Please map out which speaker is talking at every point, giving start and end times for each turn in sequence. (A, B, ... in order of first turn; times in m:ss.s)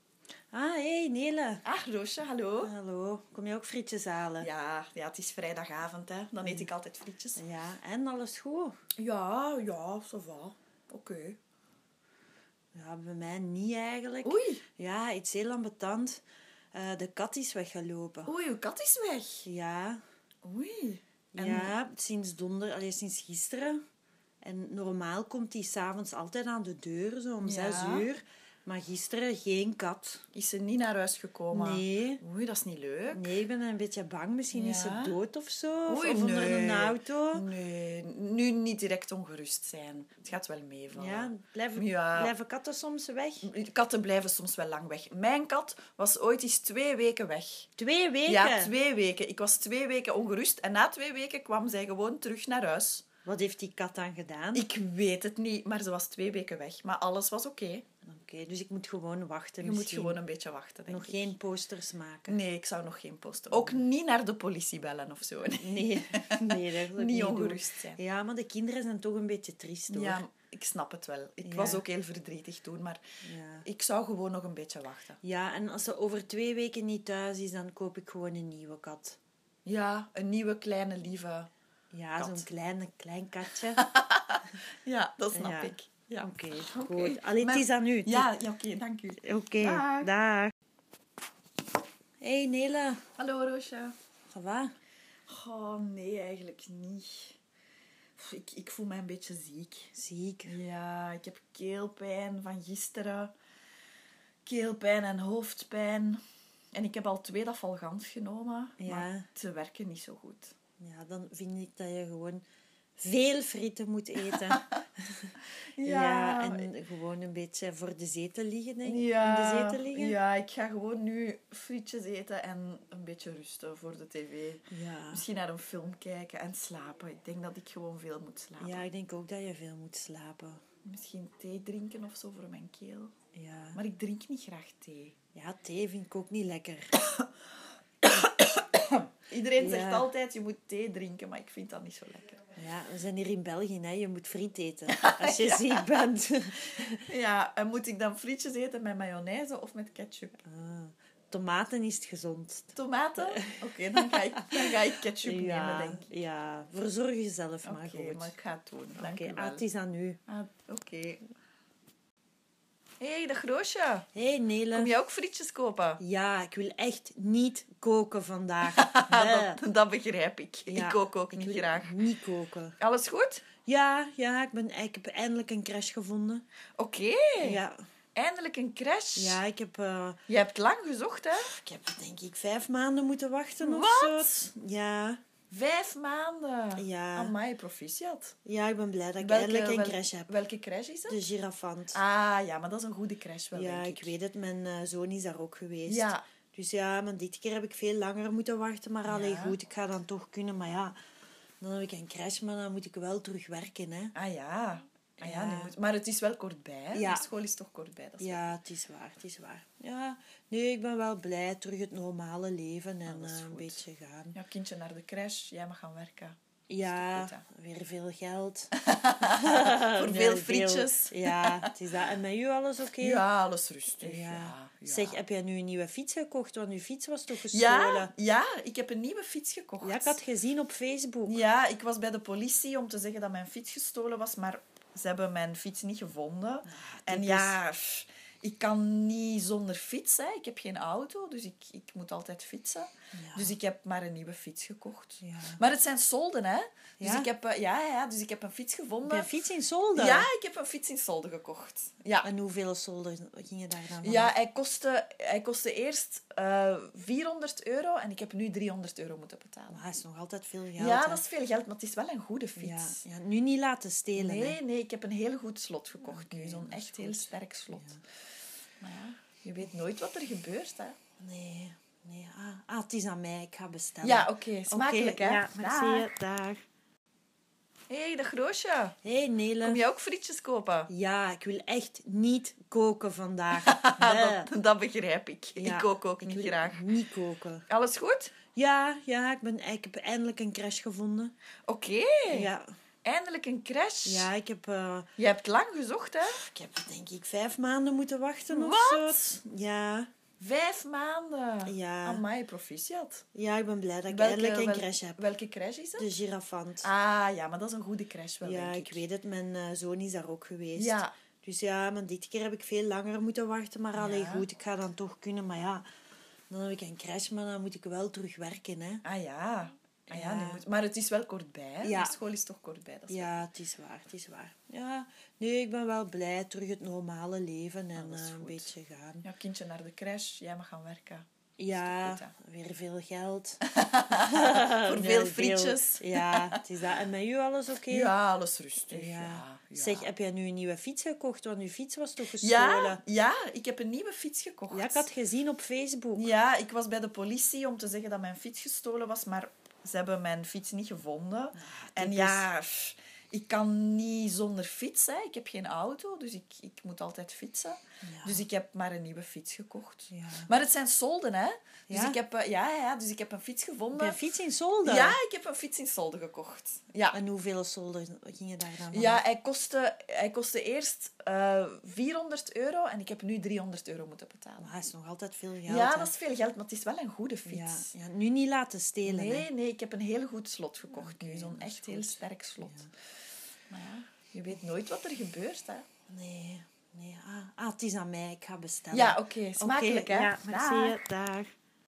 0:00.5-0:01.7 A
0:01.6-0:02.7 B
0:02.6-0:04.5 A
0:04.4-0:07.4 B
0:07.4-0:08.8 A
0:09.0-0:11.4 B
0:12.7-0:16.2 A
0:14.2-0:14.6 B
0:16.7-0:18.4 A
0:18.3-0:19.5 B
0:19.4-0:20.0 A
0:20.4-0:21.8 B
0:21.3-0:23.8 A
0:24.4-0:30.2 A
0:27.4-0:28.1 B
0:30.3-0:33.4 B
0:31.5-0:32.2 A
0:33.1-0:37.5 A
0:34.5-0:35.2 B
0:35.9-0:42.3 B
0:41.0-0:43.5 A
0:43.4-0:47.7 B
0:47.8-0:48.7 A
0:48.3-0:53.1 B
0:53.2-0:54.7 A
0:54.5-0:57.9 B
0:58.0-1:00.2 A
0:59.6-1:01.3 B
1:00.9-1:02.4 A
1:02.3-1:08.0 B
1:03.5-1:03.8 A
1:05.6-1:10.2 A
1:09.9-1:13.0 B
1:11.4-1:11.8 A
1:13.2-1:13.6 A
1:13.6-1:15.2 B
1:15.2-1:19.2 A
1:19.6-1:21.5 B
1:21.9-1:23.8 A
1:22.2-1:22.5 B
1:23.8-1:25.9 B
1:25.3-1:28.3 A
1:26.7-1:30.1 B
1:29.2-1:30.5 A
1:32.2-1:33.0 A
1:33.2-1:34.0 B
1:34.3-1:34.8 A
1:35.3-1:37.4 B
1:38.2-1:39.9 B
1:39.9-1:40.6 A
1:40.4-1:43.3 B
1:44.4-1:46.2 B
1:46.7-1:50.6 B
1:48.8-1:49.3 A
1:50.8-1:52.4 A
1:53.0-2:00.2 A
1:54.3-1:54.6 B
1:55.8-1:56.7 B
1:58.8-2:08.8 B
2:04.7-2:05.2 A
2:08.6-2:10.6 A
2:10.8-2:13.1 B
2:13.3-2:13.8 A
2:13.8-2:15.2 B
2:15.3-2:16.9 A
2:17.0-2:17.3 B
2:18.0-2:22.4 B
2:19.6-2:20.1 A
2:22.6-2:27.0 A
2:24.9-2:25.8 B
2:27.1-2:30.4 B
2:30.4-2:34.6 A
2:32.8-2:36.1 B
2:35.2-2:38.3 A
2:37.6-2:39.6 B
2:39.0-2:40.2 A
2:40.3-2:41.2 B
2:43.0-2:44.1 B
2:44.2-2:44.9 A
2:44.7-2:46.0 B
2:46.0-2:49.6 A
2:48.7-2:52.0 B
2:50.7-2:52.8 A
2:52.8-2:53.4 B
2:53.6-2:56.4 A
2:56.8-2:57.6 B
2:57.4-2:57.8 A
2:58.2-2:59.4 B
2:59.2-3:00.2 A
3:00.3-3:01.6 B
3:01.4-3:05.2 A
3:03.6-3:04.5 B
3:05.5-3:08.4 B
3:06.8-3:07.3 A
3:08.4-3:10.3 A
3:09.2-3:11.2 B
3:11.1-3:12.0 A
3:11.9-3:14.1 B
3:13.5-3:21.0 A
3:15.9-3:16.2 B
3:19.1-3:19.6 B
3:21.6-3:24.2 A
3:24.2-3:28.6 B
3:25.2-3:25.7 A
3:26.9-3:27.3 A
3:28.2-3:34.4 A
3:33.0-3:33.8 B
3:34.3-3:37.4 B
3:36.7-3:43.2 A
3:38.8-3:41.7 B
3:43.0-3:45.2 B
3:44.0-3:48.1 A
3:47.4-3:50.2 B
3:49.8-3:51.4 A
3:51.2-4:09.3 B
3:56.7-3:57.6 A
4:03.1-4:03.6 A
4:05.2-4:05.6 A
4:07.0-4:07.3 A
4:09.1-4:10.3 A
4:09.9-4:12.3 B
4:12.2-4:14.3 A
4:14.0-4:19.8 B
4:19.7-4:21.2 A
4:20.8-4:23.0 B
4:22.6-4:24.6 A
4:24.2-4:27.9 B
4:26.0-4:28.0 A
4:28.8-4:31.0 B
4:31.2-4:36.6 A
4:34.0-4:36.1 B
4:37.9-4:39.0 B
4:39.0-4:39.8 A
4:39.6-4:40.9 B
4:40.9-4:44.5 A
4:43.6-4:46.8 B
4:45.6-4:47.7 A
4:47.7-4:48.4 B
4:48.6-4:51.3 A
4:51.7-4:52.5 B
4:52.3-4:52.7 A
4:53.0-4:54.3 B
4:54.0-4:55.1 A
4:55.2-4:56.4 B
4:56.3-5:00.1 A
4:58.5-4:59.4 B
5:00.4-5:03.2 B
5:01.7-5:02.2 A
5:03.3-5:05.2 A
5:04.1-5:06.1 B
5:06.0-5:06.9 A
5:06.8-5:09.0 B
5:08.4-5:15.9 A
5:10.8-5:11.1 B
5:14.0-5:14.5 B
5:16.5-5:19.0 A
5:19.0-5:23.4 B
5:20.1-5:20.6 A
5:21.8-5:22.2 A
5:23.1-5:29.3 A
5:28.0-5:28.7 B
5:29.2-5:32.3 B
5:31.6-5:33.6 A
5:33.7-5:36.6 B
5:34.2-5:38.1 A
5:37.9-5:40.1 B
5:38.9-5:43.0 A
5:42.4-5:45.1 B
5:44.7-5:46.3 A
5:46.1-6:04.2 B
5:51.6-5:52.5 A
5:58.0-5:58.4 A
6:00.1-6:00.5 A
6:01.9-6:02.2 A
6:03.9-6:05.2 A
6:04.8-6:07.2 B
6:07.1-6:09.2 A
6:08.9-6:14.7 B
6:14.6-6:16.1 A
6:15.7-6:17.9 B
6:17.5-6:19.5 A
6:19.0-6:22.8 B
6:20.9-6:22.9 A
6:23.7-6:25.9 B
6:26.1-6:31.5 A
6:28.9-6:31.0 B